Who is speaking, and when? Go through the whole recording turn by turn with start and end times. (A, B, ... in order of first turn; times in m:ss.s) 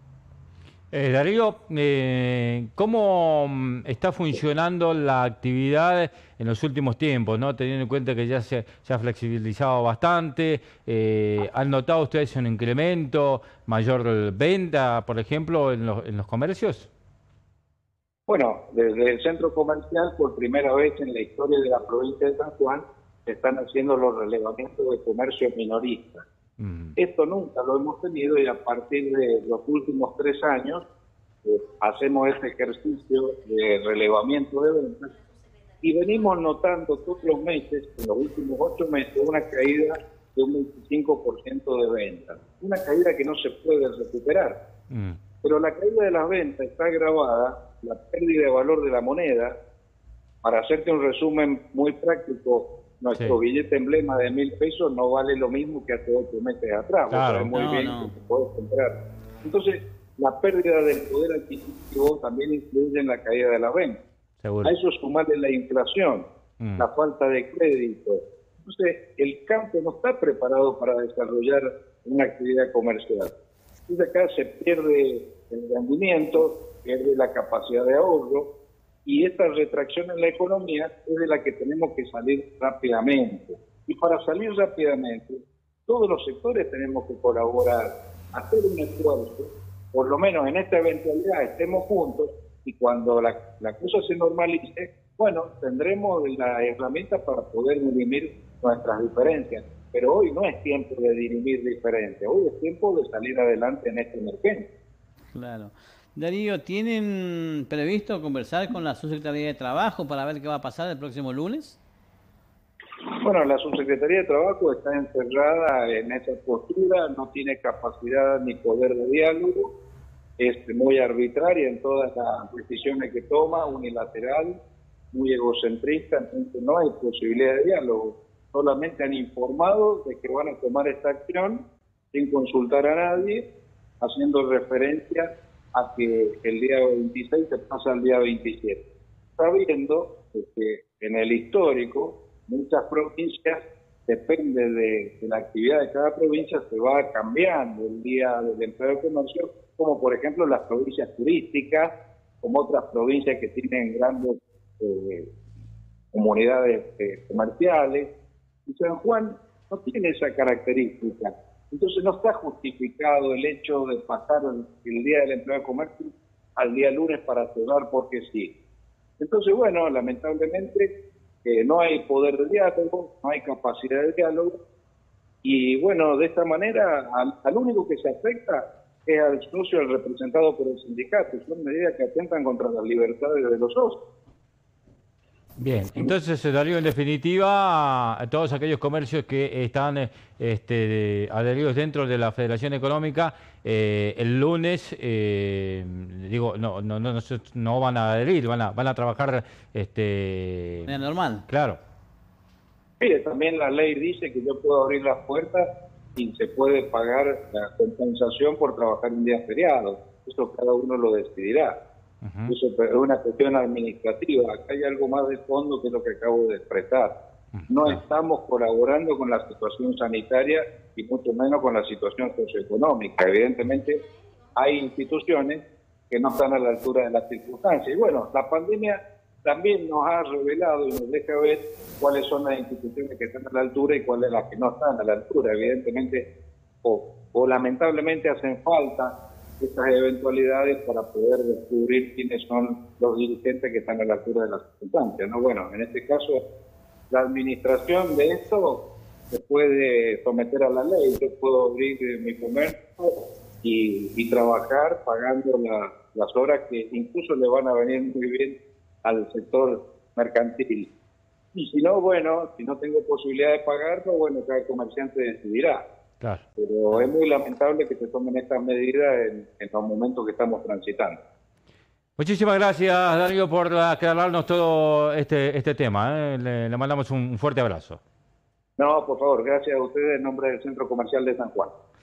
0:00.9-0:16.9 A
0:18.3-0:26.2 B
0:26.6-0:26.9 A
0:27.0-0:30.8 B
0:31.4-0:35.1 B
0:35.8-0:44.6 B
0:44.9-0:45.2 A
0:45.4-0:49.5 B
0:50.4-1:04.0 B
0:57.1-0:57.5 A
0:57.5-0:58.1 C
1:04.4-1:04.7 A
1:04.6-1:06.2 B
1:06.8-1:13.3 B
1:13.9-1:18.5 B
1:19.0-1:44.6 B
1:45.3-1:51.8 C
1:53.1-1:59.7 B
2:00.4-2:04.5 B
2:05.1-2:13.4 B
2:14.0-2:18.8 B
2:19.4-2:35.3 B
2:36.1-2:38.1 B
2:38.7-2:48.5 B
2:49.2-2:50.9 B
2:51.4-2:54.5 B
2:55.4-3:04.0 B
3:05.6-3:20.9 A
3:20.9-3:21.4 C
3:21.5-3:21.8 A
3:23.0-3:31.8 B
3:32.2-3:32.5 A
3:32.5-3:37.1 B
3:37.5-3:38.0 A
3:37.7-3:44.0 B
3:44.6-3:56.3 B
3:56.8-4:06.4 B
4:07.1-4:20.9 B
4:21.5-4:25.8 B
4:26.6-4:31.2 B
4:32.2-4:38.0 A
4:38.8-4:41.7 B